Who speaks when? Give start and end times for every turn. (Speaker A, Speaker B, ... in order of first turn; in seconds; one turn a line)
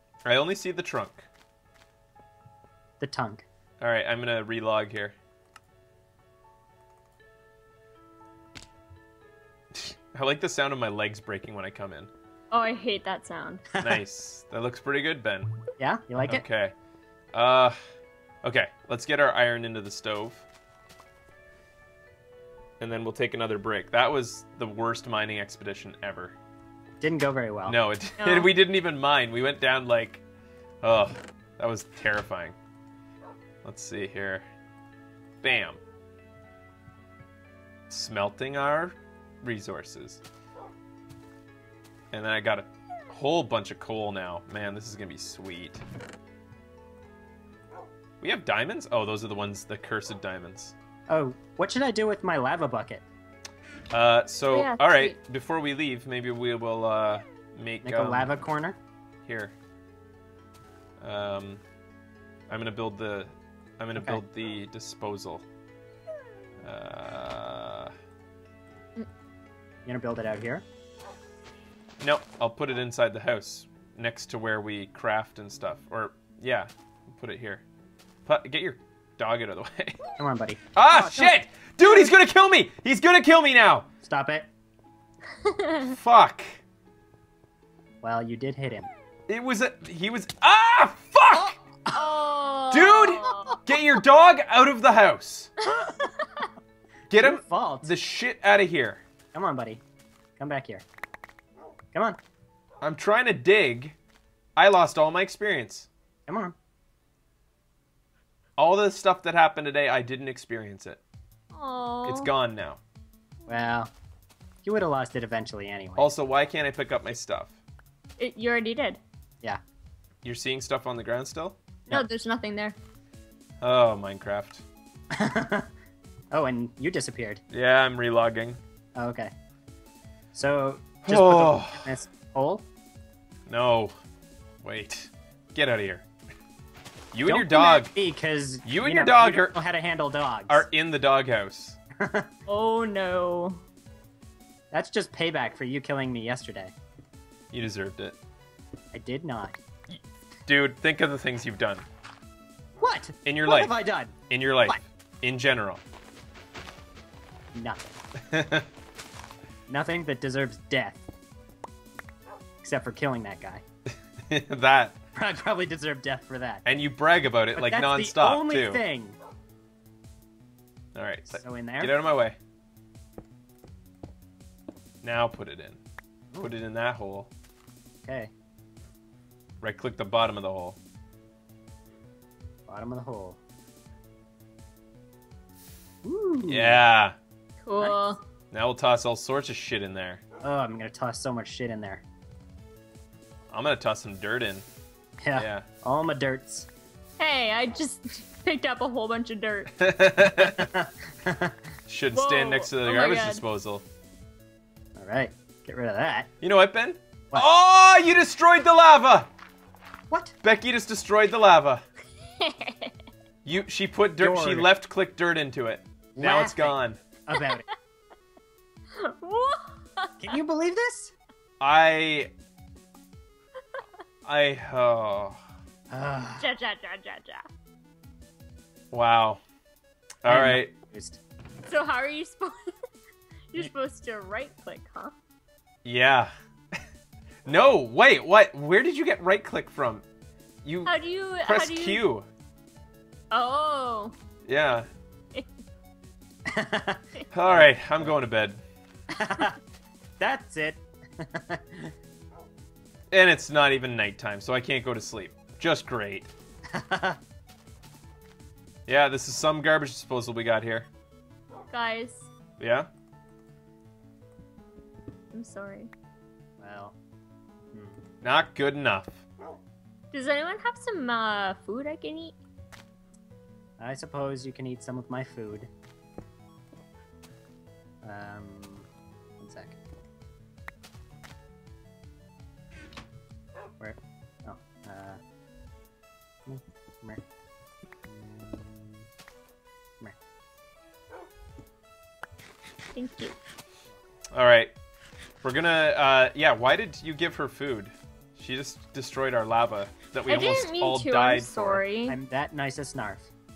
Speaker A: 0.2-1.3
Speaker B: 3.0-3.4
Speaker A: 3.8-5.1
Speaker A: 9.7-12.1
Speaker C: 12.5-13.7
Speaker A: 13.8-15.5
Speaker B: 15.8-16.4
Speaker A: 16.3-16.7
Speaker A: 17.3-17.8
Speaker A: 18.4-20.4
Speaker A: 22.8-26.3
Speaker B: 27.0-27.8
Speaker A: 27.6-30.2
Speaker C: 28.2-28.5
Speaker A: 30.8-32.5
Speaker A: 33.6-34.4
Speaker A: 35.4-35.8
Speaker A: 37.9-40.2
Speaker A: 42.1-45.8
Speaker A: 48.2-50.7
Speaker B: 51.1-53.0
Speaker A: 53.9-58.3
Speaker C: 54.5-55.1
Speaker B: 57.8-58.8
Speaker A: 59.2-59.5
Speaker A: 61.0-61.6
Speaker A: 62.5-65.4
Speaker B: 64.0-64.2
Speaker A: 66.6-67.9
Speaker B: 69.8-70.6
Speaker A: 72.0-77.6
Speaker A: 78.2-80.0
Speaker B: 80.2-81.3
Speaker A: 80.7-83.9
Speaker B: 84.0-84.5
Speaker C: 85.4-86.0
Speaker A: 85.8-86.6
Speaker B: 88.0-88.9
Speaker A: 89.3-91.6
Speaker B: 91.3-92.2
Speaker C: 91.9-93.6
Speaker A: 92.7-95.5
Speaker C: 95.6-96.5
Speaker B: 95.7-96.1
Speaker A: 97.1-99.0
Speaker B: 97.2-97.9
Speaker B: 99.3-99.8
Speaker B: 100.4-100.8
Speaker B: 101.9-102.2
Speaker A: 102.8-104.0
Speaker A: 104.5-105.9
Speaker B: 106.3-106.5
Speaker A: 108.6-111.0
Speaker C: 111.5-112.3
Speaker A: 112.0-112.8
Speaker B: 113.5-113.9
Speaker B: 114.6-116.1
Speaker A: 116.0-117.6
Speaker C: 118.2-119.0
Speaker A: 120.2-121.6
Speaker C: 121.9-122.8
Speaker A: 123.6-124.6
Speaker B: 125.1-125.7
Speaker B: 126.3-127.4
Speaker A: 127.5-128.6
Speaker B: 128.9-129.3
Speaker B: 130.3-132.6
Speaker A: 131.0-132.0
Speaker A: 133.5-133.9
Speaker A: 134.6-136.1
Speaker A: 137.1-137.9
Speaker B: 137.2-140.6
Speaker A: 138.6-139.6
Speaker A: 140.5-141.8
Speaker B: 142.0-142.3
Speaker C: 142.5-143.6
Speaker B: 144.7-146.7
Speaker A: 147.5-148.2
Speaker B: 148.9-149.6
Speaker A: 149.9-151.8
Speaker B: 152.8-154.1
Speaker A: 153.2-153.7
Speaker A: 154.3-155.8
Speaker B: 157.5-157.9
Speaker A: 158.2-158.7
Speaker B: 159.7-161.0
Speaker B: 162.6-163.6
Speaker A: 163.9-165.0
Speaker B: 165.1-166.6
Speaker A: 166.6-168.8
Speaker B: 167.5-169.2
Speaker A: 170.9-172.4
Speaker B: 171.3-171.9
Speaker A: 175.0-175.8
Speaker A: 176.4-177.3
Speaker B: 178.0-178.3
Speaker A: 179.6-180.8
Speaker B: 182.7-183.4
Speaker B: 186.0-186.8
Speaker A: 186.5-187.2
Speaker C: 187.6-188.2
Speaker A: 188.5-190.2
Speaker B: 190.4-192.0
Speaker A: 193.5-194.6
Speaker B: 195.2-196.7
Speaker A: 195.3-195.7
Speaker C: 197.2-199.8
Speaker A: 199.8-200.7
Speaker B: 200.4-201.6
Speaker A: 201.9-203.8
Speaker C: 202.1-203.4
Speaker B: 204.9-206.3
Speaker A: 206.4-209.3
Speaker A: 210.4-211.8
Speaker C: 212.4-212.9
Speaker A: 213.4-217.0
Speaker B: 214.2-214.7
Speaker B: 216.2-216.8
Speaker B: 217.3-217.7
Speaker C: 218.9-220.3
Speaker B: 220.2-221.1
Speaker A: 221.6-222.3
Speaker A: 224.2-225.4
Speaker B: 225.9-226.5
Speaker C: 226.4-227.5
Speaker A: 228.9-229.4
Speaker A: 230.2-230.7
Speaker B: 230.3-231.2
Speaker C: 231.7-232.7
Speaker C: 233.5-235.1
Speaker A: 235.8-236.8
Speaker A: 237.4-240.0
Speaker A: 240.6-240.9
Speaker C: 240.8-242.0
Speaker A: 241.4-242.3
Speaker C: 243.3-244.1
Speaker A: 244.4-244.9
Speaker B: 246.4-247.1
Speaker A: 247.3-248.6
Speaker B: 249.1-249.6
Speaker B: 250.2-251.9
Speaker A: 253.1-256.3
Speaker B: 256.7-257.2
Speaker A: 258.9-260.9
Speaker C: 261.7-262.3
Speaker A: 262.6-262.9
Speaker C: 265.3-265.9
Speaker B: 266.6-266.9
Speaker B: 267.7-268.0
Speaker A: 268.2-269.2
Speaker C: 270.1-272.3
Speaker B: 273.8-275.7
Speaker B: 278.0-278.9
Speaker B: 279.4-279.8
Speaker B: 283.8-285.2
Speaker B: 286.4-287.2
Speaker B: 288.1-289.0
Speaker C: 292.9-293.4
Speaker A: 294.3-294.7
Speaker A: 295.4-301.8
Speaker C: 300.3-302.2
Speaker B: 302.1-303.3